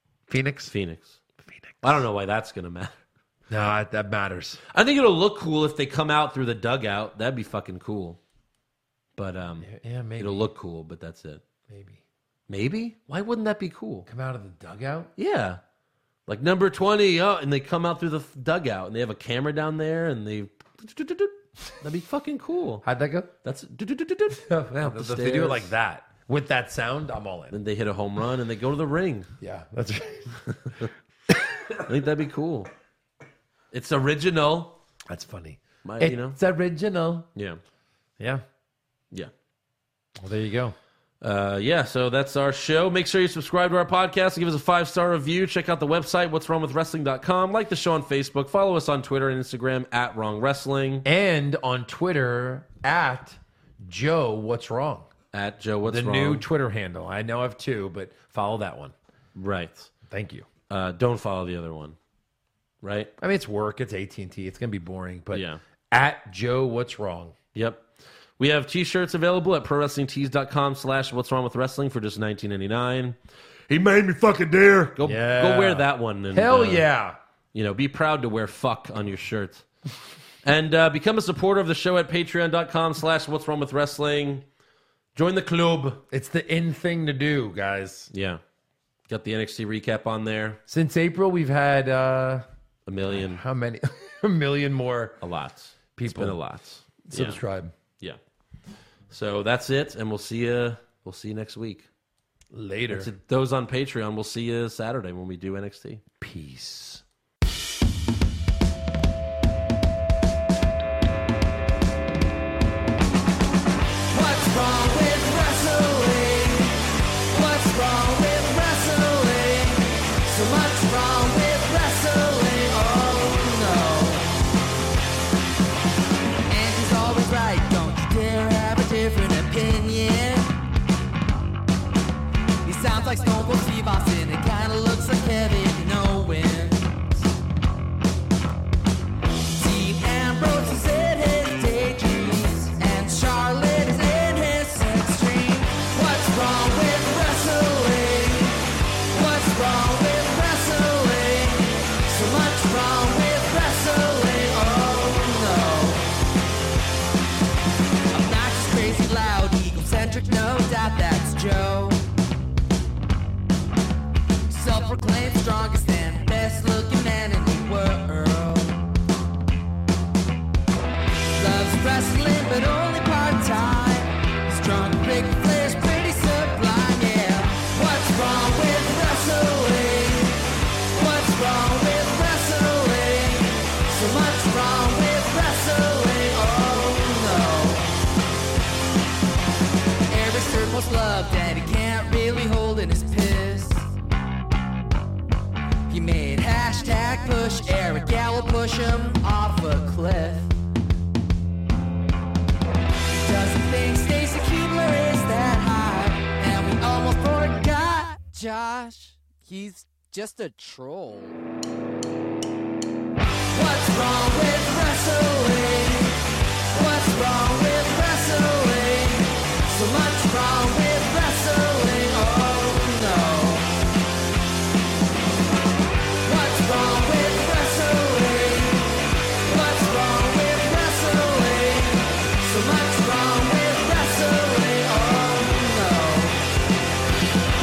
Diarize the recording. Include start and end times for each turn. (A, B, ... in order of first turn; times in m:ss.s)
0:00.3-0:00.7 A
0:00.7-0:01.2 B
0:01.4-0:02.0 A
0:01.8-0:03.0 B
0:03.5-0:04.6 A
0:04.7-0:08.2 B
0:09.2-0:11.4 B
0:09.6-0:10.5 A
0:11.7-0:12.0 A
0:12.5-0:14.1 B
0:14.1-0:15.1 A
0:15.2-0:15.6 B
0:16.3-0:22.8 B
0:22.8-0:23.3 A
0:23.4-0:25.7 B
0:24.3-0:27.6 A
0:27.5-0:29.3 B
0:29.4-0:30.4 A
0:31.8-0:32.7 B
0:33.7-0:34.8 B
0:35.1-0:37.3 A
0:35.8-0:36.4 B
0:37.3-0:37.6 B
0:40.2-0:40.7 A
0:41.2-0:51.0 B
0:51.0-0:55.1 A
0:55.3-0:56.4 B
0:55.8-0:58.9 A
0:59.3-0:59.9 B
1:00.1-1:00.4 A
1:00.7-1:02.0 B
1:02.8-1:03.1 B
1:03.2-1:07.3 A
1:05.3-1:05.6 B
1:07.5-1:07.8 B
1:08.4-1:13.2 B
1:13.7-1:16.8 B
1:15.0-1:17.2 A
1:17.5-1:19.6 B
1:20.4-1:24.4 B
1:25.1-1:26.0 B
1:26.1-1:28.1 A
1:28.1-1:28.4 B
1:29.1-1:30.6 B
1:30.7-1:32.4 A
1:32.8-1:33.4 B
1:33.1-1:35.2 A
1:35.2-1:37.4 B
1:36.0-1:36.4 A
1:37.0-1:37.7 A
1:39.1-1:41.9 B
1:42.5-1:43.1 A
1:42.9-1:46.0 B
1:46.2-1:47.0 A
1:54.1-2:04.3 C
2:06.5-2:10.5 C
2:12.6-2:17.0 C
2:19.5-2:28.6 C
2:29.1-2:36.0 C
2:38.1-2:42.0 C
2:44.5-2:48.8 C
2:51.4-3:07.9 C
3:10.1-3:13.9 C
3:15.9-3:20.5 C
3:23.2-3:31.4 C
3:33.5-3:36.2 C
3:36.7-3:43.7 C
3:46.2-3:56.4 C